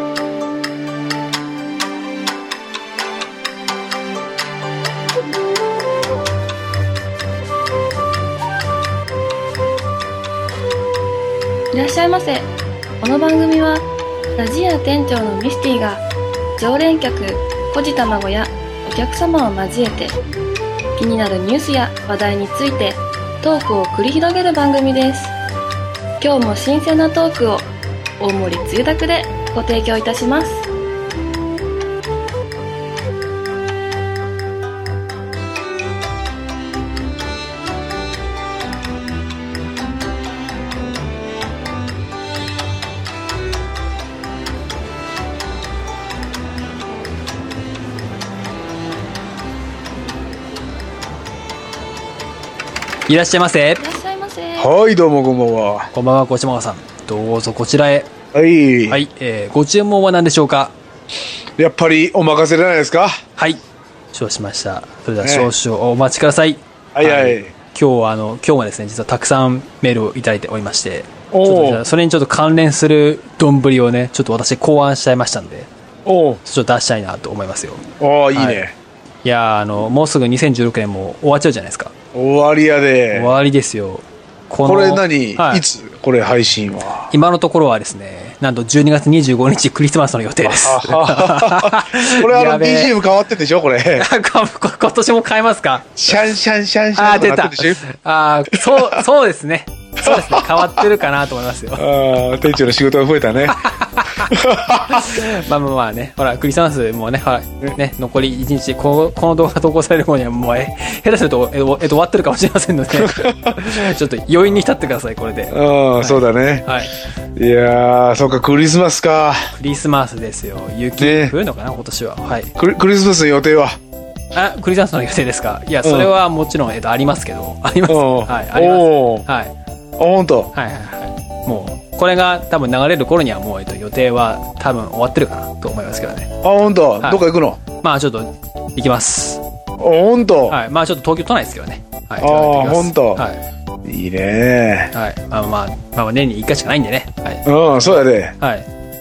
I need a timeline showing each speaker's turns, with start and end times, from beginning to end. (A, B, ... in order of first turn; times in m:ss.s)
0:11.7-0:12.5 A
0:13.0-0:13.9 A
0:14.4-0:16.0 A
0:16.6-0:20.2 A
0:21.0-0:25.3 A
0:26.2-0:27.6 A
0:28.2-0:30.7 A
0:53.1-0:53.8 B
0:53.8-0:54.7 A
0:54.6-0:55.9 C
0:55.9-0:58.1 B
0:58.3-0:59.0 C
0:58.9-1:00.7 B
1:01.6-1:03.2 C
1:04.1-1:15.7 B
1:05.2-1:05.5 C
1:06.9-1:07.5 C
1:11.3-1:11.8 C
1:16.0-1:16.4 C
1:16.4-1:18.6 B
1:18.0-1:18.7 C
1:19.2-1:21.9 B
1:22.1-1:23.3 C
1:23.1-1:25.6 B
1:24.6-1:27.1 C
1:27.1-1:32.9 B
1:30.4-1:34.1 C
1:34.0-1:36.2 B
1:36.0-1:37.8 C
1:36.9-1:41.9 B
1:38.5-1:39.0 C
1:40.0-1:40.8 C
1:41.8-1:43.6 C
1:43.5-1:44.3 B
1:44.3-1:45.3 C
1:44.9-1:56.9 B
1:53.0-1:53.8 C
1:55.5-1:56.7 C
1:57.4-1:59.5 C
1:59.6-2:02.5 B
2:01.0-2:01.4 C
2:02.6-2:03.8 C
2:04.3-2:09.5 B
2:05.8-2:06.1 C
2:07.9-2:09.2 C
2:10.0-2:10.5 C
2:10.5-2:16.3 B
2:16.4-2:17.6 C
2:17.8-2:19.4 B
2:19.8-2:20.6 C
2:20.5-2:23.4 B
2:22.2-2:23.2 C
2:23.8-2:24.9 C
2:24.9-2:28.6 B
2:27.4-2:28.3 C